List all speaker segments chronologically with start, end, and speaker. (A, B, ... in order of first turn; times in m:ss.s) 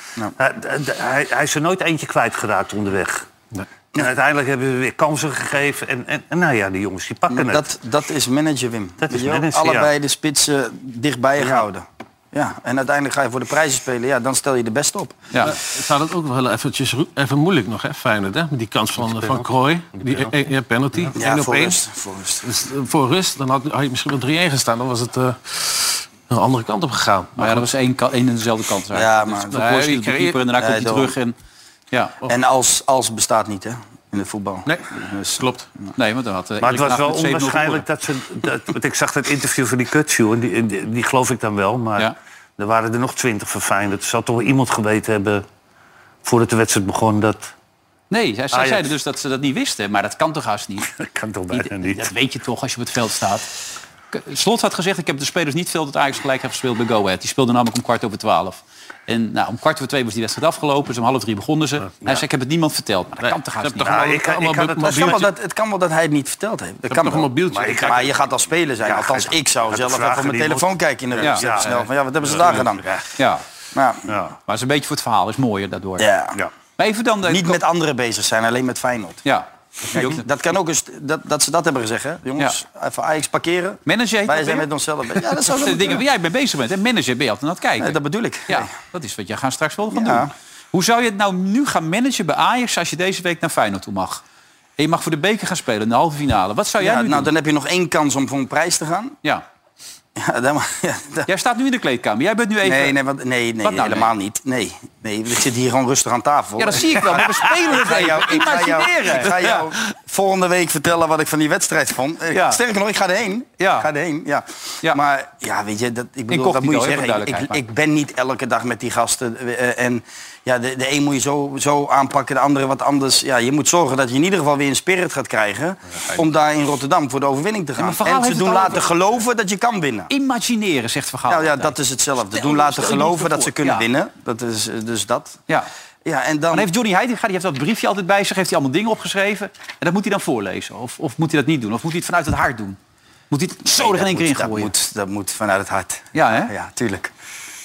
0:00.4-0:03.2 A
0:03.9-0:07.6 A
0:07.3-0:15.2 B
0:09.0-0:09.9 A
0:15.4-0:21.8 C
0:19.0-0:20.3 A
0:21.1-0:22.5 B
0:22.4-0:27.7 C
0:27.4-0:31.3 D
0:28.9-0:29.7 B
0:29.5-0:30.4 C
0:30.6-0:31.1 B
0:32.2-0:35.4 B
0:34.6-0:35.7 C
0:35.9-0:37.8 D
0:36.6-0:45.4 A
0:46.2-0:47.5 A
0:48.1-0:50.9 D
0:48.5-0:48.9 A
0:50.9-0:52.1 A
0:51.5-0:53.5 D
0:54.1-1:04.0 D
1:03.2-1:05.3 C
1:03.8-1:05.3 A
1:04.8-1:12.8 B
1:06.9-1:08.2 C
1:07.5-1:08.2 A
1:08.8-1:13.0 A
1:11.6-1:12.7 C
1:13.2-1:13.4 D
1:13.7-1:14.0 B
1:14.1-1:14.4 A
1:14.5-1:16.1 D
1:16.0-1:16.4 B
1:16.8-1:17.6 D
1:17.3-1:19.2 B
1:19.2-1:20.2 D
1:19.9-1:26.0 B
1:23.8-1:24.7 D
1:25.5-1:34.2 D
1:27.8-1:28.7 B
1:29.9-1:30.3 B
1:34.8-1:37.3 D
1:36.8-1:39.2 B
1:40.2-1:41.3 B
1:41.3-1:43.0 D
1:42.6-2:10.1 B
1:43.6-1:44.1 D
1:46.6-1:49.7 D
1:52.3-1:52.6 D
1:53.6-1:53.9 D
1:56.3-1:57.6 D
2:07.8-2:08.9 D
2:10.1-2:13.9 D
2:11.3-2:15.4 B
2:16.0-2:16.7 B
2:16.5-2:22.8 D
2:23.3-2:24.7 D
2:23.6-2:27.1 B
2:26.1-2:26.5 D